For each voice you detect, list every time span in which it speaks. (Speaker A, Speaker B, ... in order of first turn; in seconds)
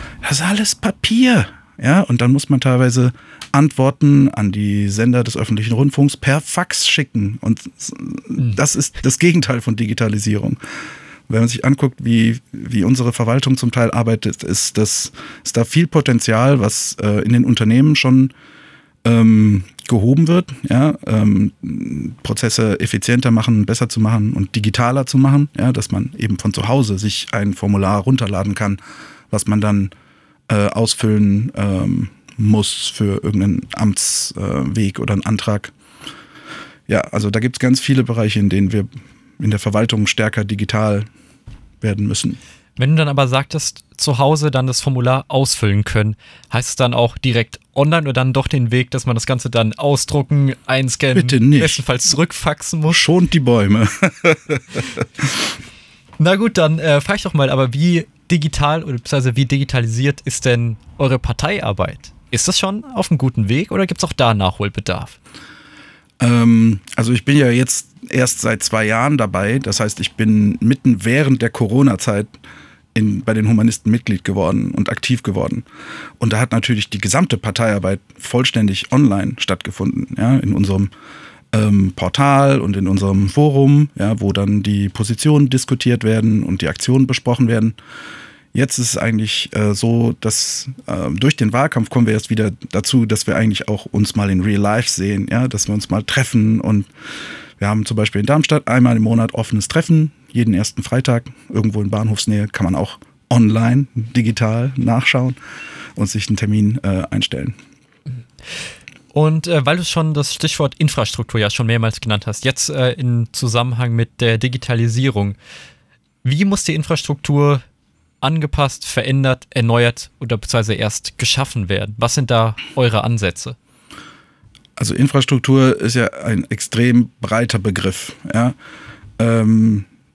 Speaker A: 0.2-10.6, 11.3-18.3, 19.0-28.8, 29.3-29.9, 30.5-35.7, 36.9-41.1, 41.8-42.4, 51.1-51.8, 52.9-55.4, 66.2-72.3, 72.9-75.7, 76.2-80.9, 81.5-87.8, 88.5-96.9, 97.6-105.4, 106.0-107.5, 124.8-128.5, 129.2-129.9
Speaker B: 42.8-53.0, 56.2-65.2, 109.1-115.3, 116.2-117.6, 118.2-123.5